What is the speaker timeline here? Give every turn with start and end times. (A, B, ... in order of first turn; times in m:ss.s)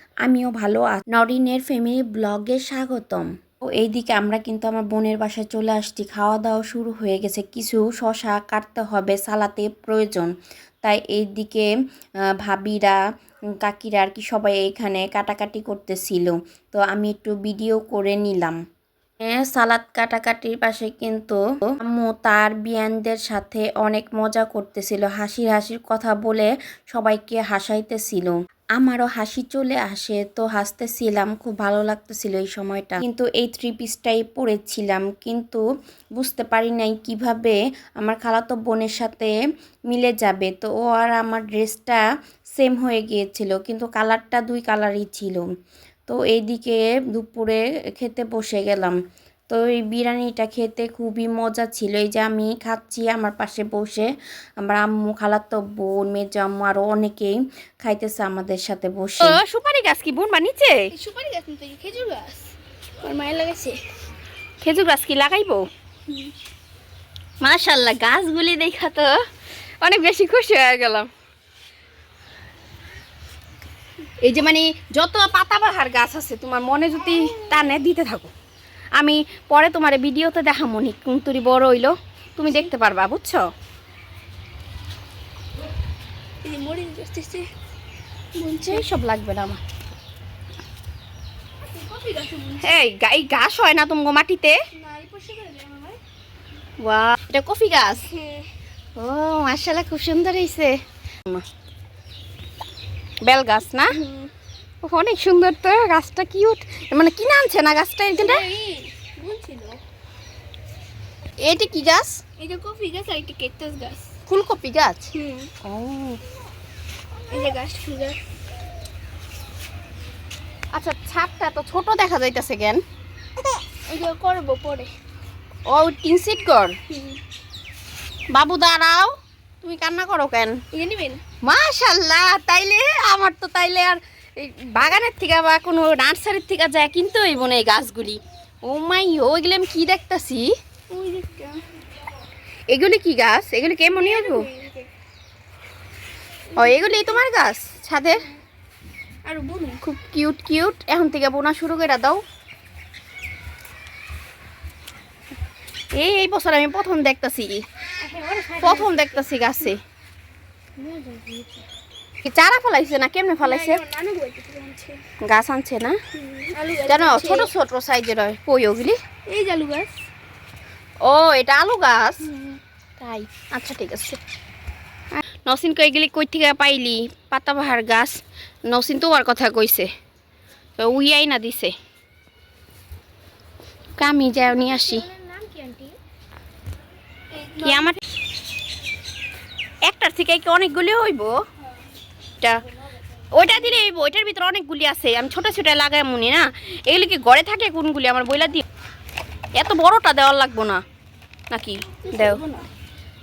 0:00.2-0:10.3 A
0:10.8-0:11.7 A
0:12.4-0:13.0 A
0:13.6-0:18.6 A
0:19.2-0:35.6 A
0:36.2-0:39.3 A
0:39.9-0:42.0 A
0:42.5-0:45.4 A
0:46.1-0:49.0 A
0:49.5-0:54.1 A
0:54.6-0:59.4 A
0:59.2-1:00.9 B
1:01.1-1:02.5 C
1:03.0-1:03.8 C
1:04.6-1:05.7 B
1:07.4-1:09.1 B
1:09.8-1:11.1 B
1:14.2-1:18.3 B
1:19.0-1:23.4 B
1:26.4-1:27.5 C
1:28.4-1:28.9 C
1:28.7-1:29.6 B
1:31.6-1:32.7 C
1:32.6-1:34.5 B
1:34.7-1:36.0 C
1:36.8-1:38.0 B
1:38.1-1:38.5 C
1:39.0-1:40.7 B
1:43.3-1:43.9 B
1:43.9-1:44.3 C
1:44.8-1:48.4 B
1:48.2-1:49.8 C
1:51.4-1:52.2 B
1:52.4-1:54.1 C
1:54.3-1:55.1 B
1:55.1-1:55.5 C
1:55.7-1:56.2 B
1:57.3-1:58.2 C
2:00.8-2:02.8 B
2:03.8-2:04.9 C
2:05.7-2:06.7 B
2:06.9-2:07.2 C
2:08.3-2:09.1 B
2:09.6-2:10.6 B
2:10.7-2:11.2 C
2:11.4-2:20.5 B
2:20.9-2:21.6 C
2:22.7-2:24.5 B
2:23.9-2:24.9 C
2:26.5-2:27.0 C
2:26.6-2:28.2 B
2:29.3-2:29.8 C
2:29.8-2:32.2 B
2:36.0-2:37.6 B
2:38.0-2:39.7 C
2:38.6-2:39.8 B
2:40.8-2:41.6 C
2:42.2-2:43.8 B
2:43.4-2:45.0 C
2:45.3-2:45.9 B
2:46.2-2:47.5 C
2:46.9-2:49.0 B
2:49.3-2:50.0 C
2:51.0-2:52.3 B
2:52.3-2:52.6 C
2:53.0-2:54.2 B
2:55.4-2:58.2 B
2:58.7-2:59.9 B
3:00.8-3:01.7 B
3:04.0-3:05.0 B
3:04.6-3:06.0 C
3:07.3-3:07.9 C
3:07.6-3:08.0 B
3:09.9-3:11.4 B
3:13.4-3:18.6 B
3:19.6-3:20.8 B
3:21.5-3:22.4 B
3:21.9-3:22.7 C